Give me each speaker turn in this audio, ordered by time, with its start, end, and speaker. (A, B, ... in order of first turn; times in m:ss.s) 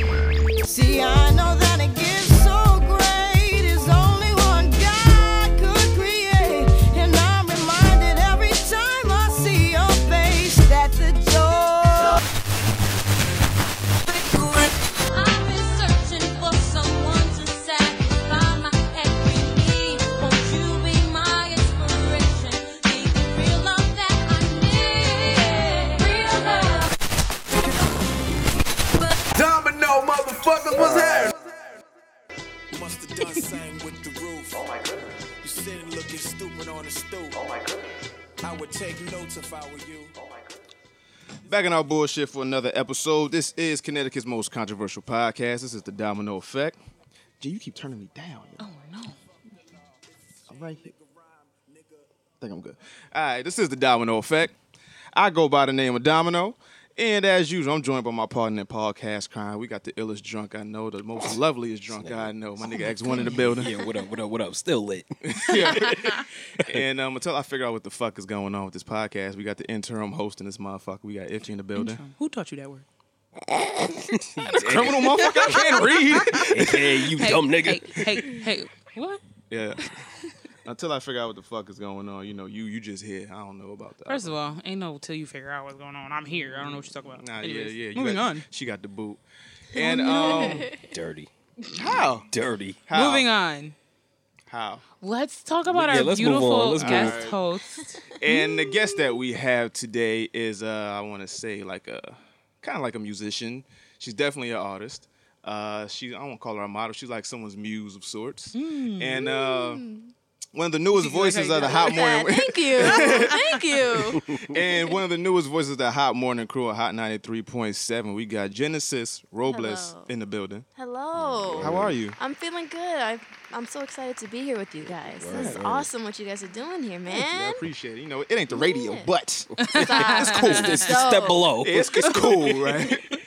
0:00.6-0:12.2 A
0:15.1-0:26.9 B
0:29.3-0:31.3 C
0:32.7-0:37.7 C
0:38.4-0:40.2 C
0:41.4-0:46.8 D
0:47.4-0:48.6 D
0:48.6-0:49.2 E
0:50.5-0:50.9 D
0:50.7-0:51.9 C
0:52.4-0:54.6 D
0:55.1-1:03.7 D
1:01.9-1:06.8 F
1:02.6-1:03.6 E
1:05.3-1:06.2 D
1:06.7-1:12.0 D
1:11.8-1:12.8 E
1:14.1-1:15.2 F
1:14.5-1:15.8 E
1:14.6-1:16.7 D
1:16.4-1:18.3 F
1:17.2-1:19.2 E
1:19.5-1:19.8 D
1:20.6-1:24.4 D
1:24.1-1:28.4 E
1:27.1-1:29.2 D
1:29.7-1:30.7 D
1:29.7-1:30.8 G
1:30.8-1:32.8 F
1:31.7-1:32.3 D
1:32.9-1:33.3 D
1:32.9-1:33.8 E
1:34.5-1:34.8 D
1:35.0-1:38.0 E
1:35.6-1:37.2 F
1:36.7-1:37.4 D
1:38.2-1:49.8 D
1:38.3-1:39.0 G
1:48.5-1:49.3 E
1:49.2-1:50.1 G
1:50.5-1:53.5 D
1:50.9-1:52.0 E
1:51.6-1:54.2 G
1:52.8-1:53.4 E
1:54.1-1:54.6 F
1:54.5-2:00.7 D
1:59.4-2:00.1 G
2:00.8-2:07.6 G
2:01.1-2:02.0 F
2:01.6-2:02.2 D
2:04.8-2:05.9 F
2:05.3-2:05.6 D
2:07.1-2:10.8 D
2:08.5-2:09.1 G
2:09.7-2:10.9 E
2:09.7-2:11.5 G
2:10.5-2:12.0 F
2:11.6-2:13.1 D
2:12.0-2:12.8 E